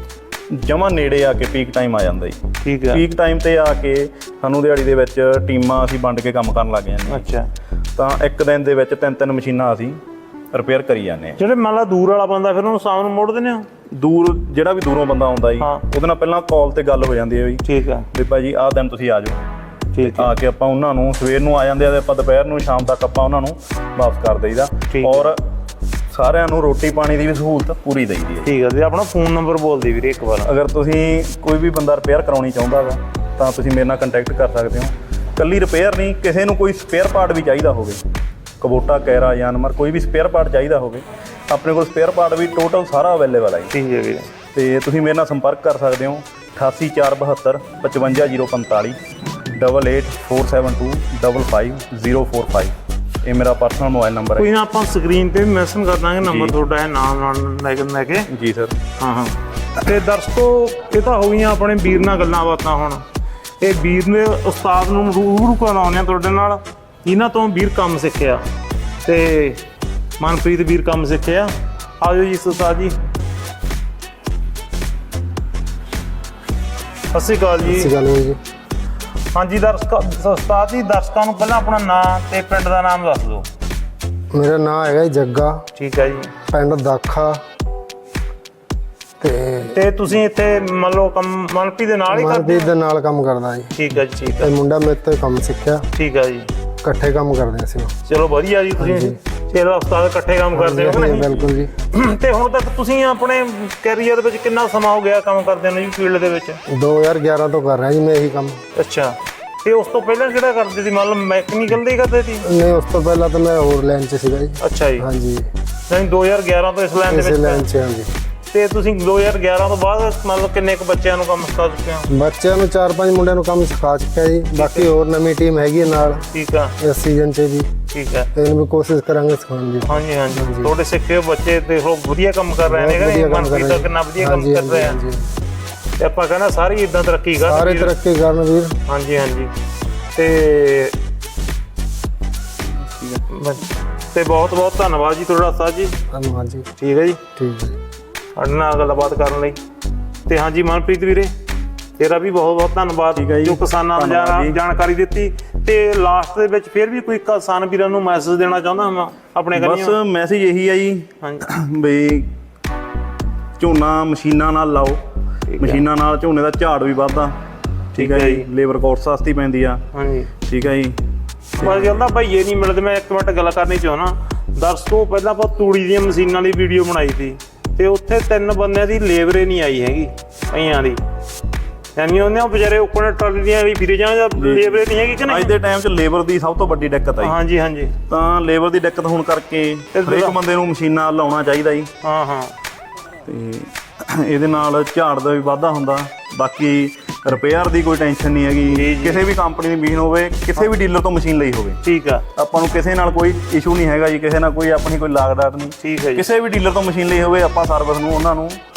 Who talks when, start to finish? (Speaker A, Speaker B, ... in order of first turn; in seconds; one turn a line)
Speaker A: 0.5-2.4
Speaker B: 2.6-3.0
Speaker A: 2.9-7.2
Speaker B: 7.1-7.5
Speaker A: 8.0-10.0
Speaker A: 10.5-11.4
Speaker B: 11.4-13.7
Speaker A: 13.9-19.4
Speaker B: 15.6-15.8
Speaker B: 17.6-18.1
Speaker B: 19.9-20.3
Speaker A: 20.0-25.4
Speaker B: 24.9-25.3
Speaker A: 26.1-28.5
Speaker B: 28.4-30.5
Speaker A: 30.4-38.0
Speaker A: 38.6-43.7
Speaker B: 43.7-44.3
Speaker A: 44.5-49.0
Speaker A: 49.5-52.7
Speaker A: 53.2-54.5
Speaker B: 54.4-58.3
Speaker A: 56.2-56.5
Speaker A: 58.3-58.8
Speaker B: 59.0-63.0
Speaker B: 63.6-68.4
Speaker B: 69.0-69.6
Speaker B: 70.2-73.0
Speaker B: 77.1-77.9
Speaker C: 77.7-78.4
Speaker B: 79.3-83.5
Speaker C: 84.3-85.6
Speaker B: 85.8-86.3
Speaker C: 86.5-87.4
Speaker C: 89.2-89.8
Speaker B: 89.7-92.7
Speaker C: 92.1-93.7
Speaker B: 93.8-94.5
Speaker C: 94.4-95.9
Speaker B: 95.9-96.5
Speaker C: 96.8-97.9
Speaker B: 98.0-106.6
Speaker C: 98.8-99.2
Speaker C: 100.5-101.7
Speaker C: 106.7-108.6
Speaker B: 108.8-112.5
Speaker C: 112.4-115.5
Speaker B: 114.6-115.1
Speaker B: 115.9-117.7
Speaker C: 117.1-118.1
Speaker B: 118.5-122.1
Speaker C: 122.1-126.3
Speaker B: 124.5-124.9
Speaker B: 126.3-126.8
Speaker C: 126.8-127.7
Speaker B: 127.9-128.3
Speaker C: 128.3-130.7
Speaker B: 129.8-135.0
Speaker C: 132.7-135.3
Speaker B: 136.0-138.0
Speaker C: 137.4-138.8
Speaker B: 138.9-139.5
Speaker B: 140.2-141.0
Speaker A: 142.8-143.2
Speaker B: 143.3-146.0
Speaker C: 146.1-146.7
Speaker B: 146.8-147.2
Speaker C: 147.4-147.8
Speaker B: 148.4-149.6
Speaker B: 150.3-151.3
Speaker B: 152.0-159.9
Speaker A: 153.2-154.6
Speaker A: 159.6-162.3
Speaker A: 163.6-165.0
Speaker B: 165.5-165.8
Speaker A: 165.6-167.4
Speaker B: 167.9-168.5
Speaker A: 168.0-169.8
Speaker B: 169.9-170.3
Speaker A: 170.5-171.0
Speaker A: 171.6-172.0
Speaker B: 171.6-181.0
Speaker B: 182.0-185.5
Speaker A: 184.4-187.3
Speaker B: 187.2-187.9
Speaker A: 188.1-191.9
Speaker B: 189.9-190.4
Speaker B: 192.0-192.5
Speaker A: 193.3-201.8
Speaker B: 198.7-199.2
Speaker B: 201.8-202.3
Speaker A: 202.4-208.6
Speaker B: 205.8-206.3